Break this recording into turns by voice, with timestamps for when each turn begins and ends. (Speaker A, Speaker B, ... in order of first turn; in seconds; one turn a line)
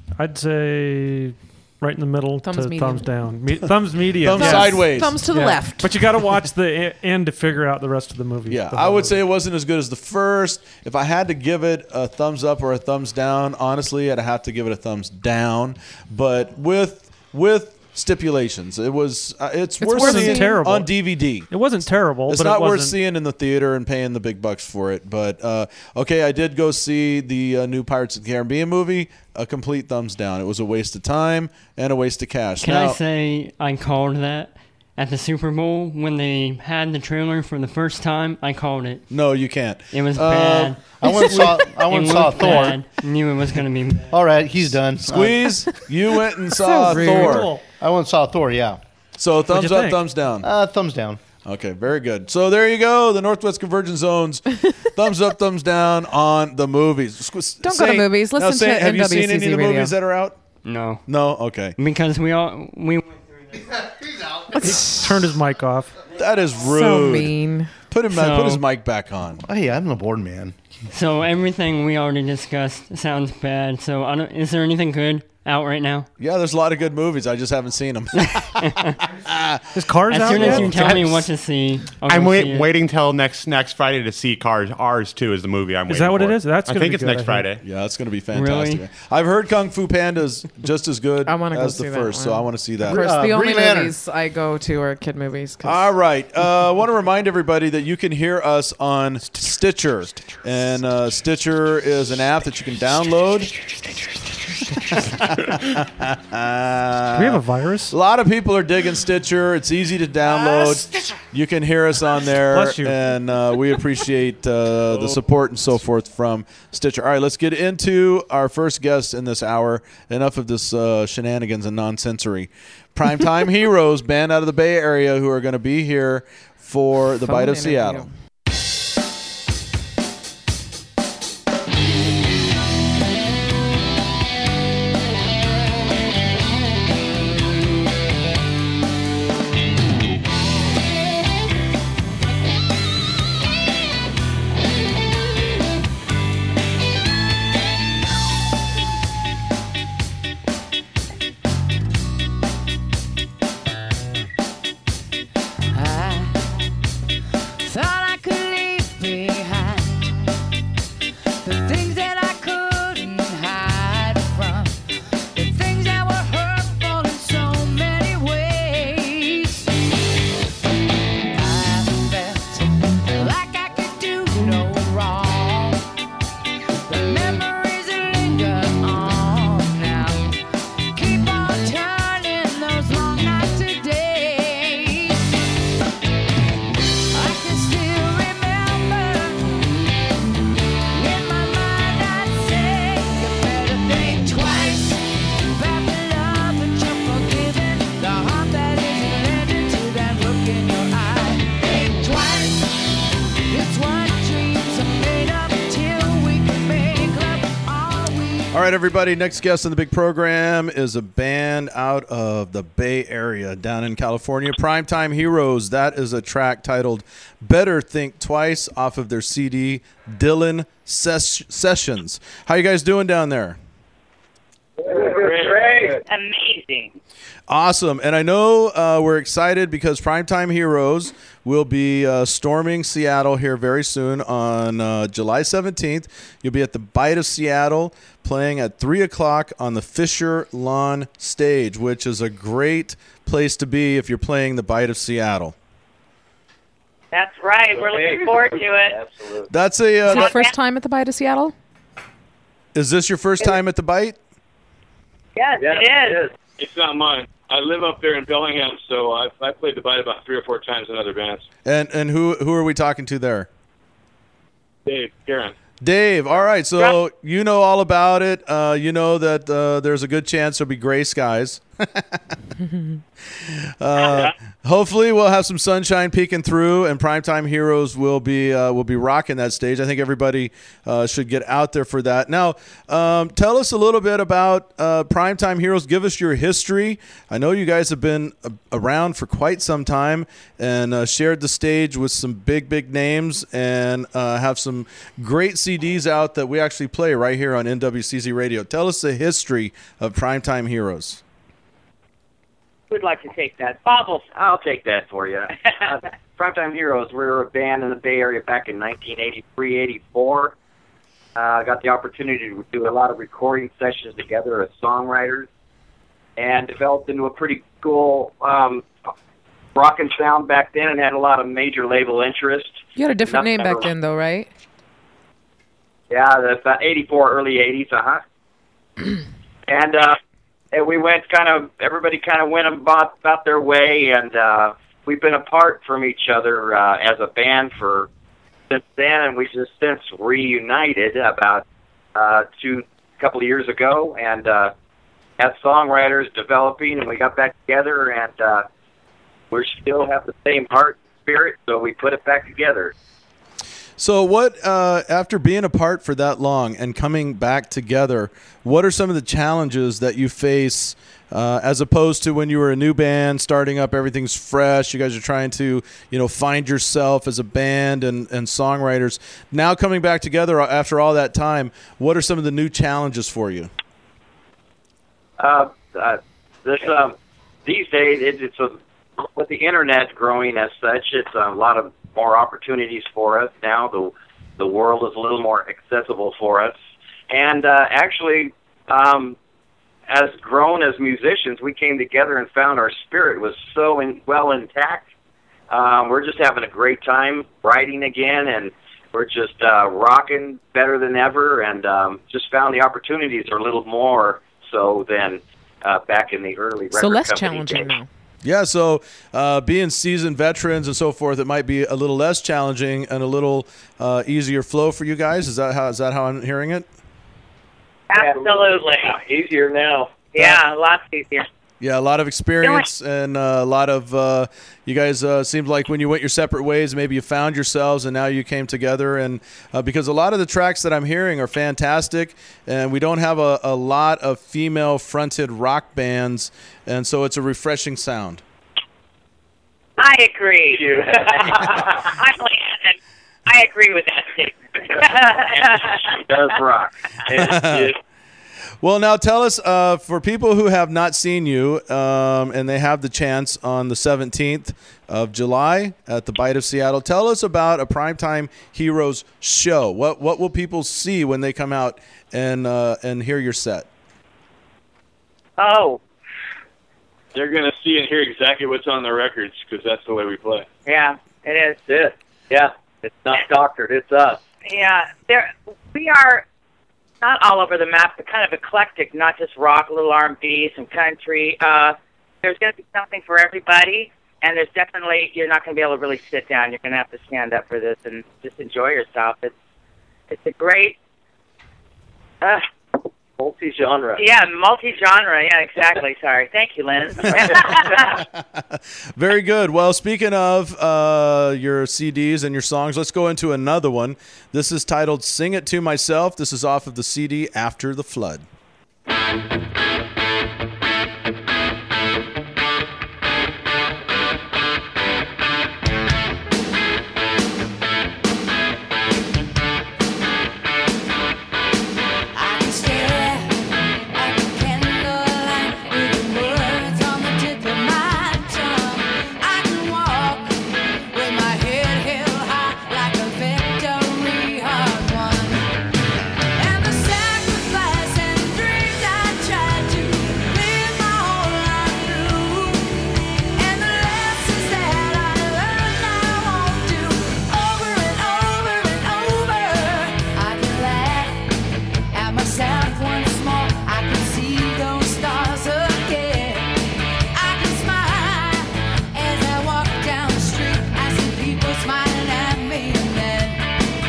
Speaker A: 0.2-9.2
Speaker B: 2.4-3.1
Speaker C: 4.2-5.2
Speaker B: 4.3-5.9
Speaker C: 8.5-21.5
Speaker B: 19.8-20.6
Speaker A: 19.9-20.9
Speaker A: 21.5-23.0
Speaker C: 22.3-33.0
Speaker D: 32.6-39.1
Speaker C: 39.1-40.8
Speaker D: 39.9-44.2
Speaker E: 41.0-42.8
Speaker E: 44.1-45.6
Speaker C: 45.0-47.6
Speaker B: 46.5-47.5
Speaker A: 46.9-47.6
Speaker E: 47.7-48.8
Speaker C: 49.2-50.5
Speaker A: 49.5-50.0
Speaker E: 50.4-51.2
Speaker C: 51.4-60.4
Speaker B: 57.6-60.0
Speaker D: 60.6-61.0
Speaker C: 61.1-61.8
Speaker D: 61.8-63.1
Speaker B: 64.6-65.0
Speaker A: 64.6-66.0
Speaker C: 66.1-67.4
Speaker B: 66.6-67.7
Speaker C: 67.9-69.4
Speaker D: 68.1-68.6
Speaker E: 69.4-70.5
Speaker D: 70.9-76.1
Speaker C: 76.2-79.8
Speaker D: 78.4-79.0
Speaker A: 79.8-81.1
Speaker D: 80.1-82.7
Speaker F: 80.7-81.2
Speaker F: 82.1-87.6
Speaker A: 85.9-87.5
Speaker C: 87.6-93.0
Speaker D: 88.3-88.8
Speaker B: 91.3-95.9
Speaker E: 92.9-94.0
Speaker C: 95.6-103.5
Speaker C: 104.9-128.1
Speaker A: 107.1-107.9
Speaker A: 112.5-113.0
Speaker B: 127.2-128.1
Speaker G: 155.7-156.7
Speaker G: 157.6-160.2
Speaker G: 161.4-164.8
Speaker G: 165.3-169.7
Speaker G: 171.3-175.8
Speaker G: 176.9-180.4
Speaker G: 180.9-185.3
Speaker G: 187.1-189.6
Speaker G: 190.9-203.0
Speaker G: 203.5-208.6
Speaker C: 208.5-223.6
Speaker H: 224.8-226.0
Speaker I: 225.0-225.9
Speaker J: 226.1-226.9
Speaker C: 227.5-245.6
Speaker J: 247.1-249.0
Speaker H: 247.8-249.5
Speaker C: 249.5-250.3
Speaker B: 250.1-251.5
Speaker J: 250.1-250.5
Speaker C: 252.7-254.2
Speaker J: 255.4-256.3
Speaker H: 255.6-256.3
Speaker I: 256.6-261.4
Speaker C: 261.6-263.5
Speaker I: 264.9-265.5
Speaker C: 265.8-272.2
Speaker C: 273.4-301.2
Speaker J: 274.0-274.3
Speaker J: 302.9-304.2
Speaker H: 304.4-310.5
Speaker H: 311.4-315.5
Speaker H: 316.4-318.9
Speaker H: 319.8-323.9
Speaker B: 323.0-324.5
Speaker H: 326.1-328.2
Speaker H: 329.7-330.2
Speaker H: 330.7-338.1
Speaker H: 338.7-344.7
Speaker H: 345.4-348.7
Speaker H: 349.5-352.9
Speaker C: 354.0-373.7
Speaker H: 375.4-386.8
Speaker H: 387.3-389.4
Speaker H: 390.1-395.0
Speaker H: 395.7-407.9
Speaker B: 406.9-408.1
Speaker C: 408.4-416.9
Speaker J: 418.1-419.2
Speaker H: 418.1-420.3
Speaker J: 420.3-421.5
Speaker C: 421.8-438.4
Speaker J: 440.0-446.1
Speaker H: 440.8-441.7
Speaker H: 446.1-447.9
Speaker C: 447.3-447.9
Speaker C: 448.8-463.9
Speaker J: 465.6-466.0
Speaker I: 467.3-470.7
Speaker J: 470.9-471.8
Speaker H: 471.9-474.4
Speaker J: 474.6-476.4
Speaker J: 477.2-489.5
Speaker J: 490.3-491.0
Speaker J: 492.4-492.7
Speaker H: 493.4-494.2
Speaker J: 494.2-498.2
Speaker C: 498.1-508.5
Speaker G: 522.3-535.7
Speaker G: 536.5-551.5
Speaker G: 552.1-556.8
Speaker G: 557.3-563.7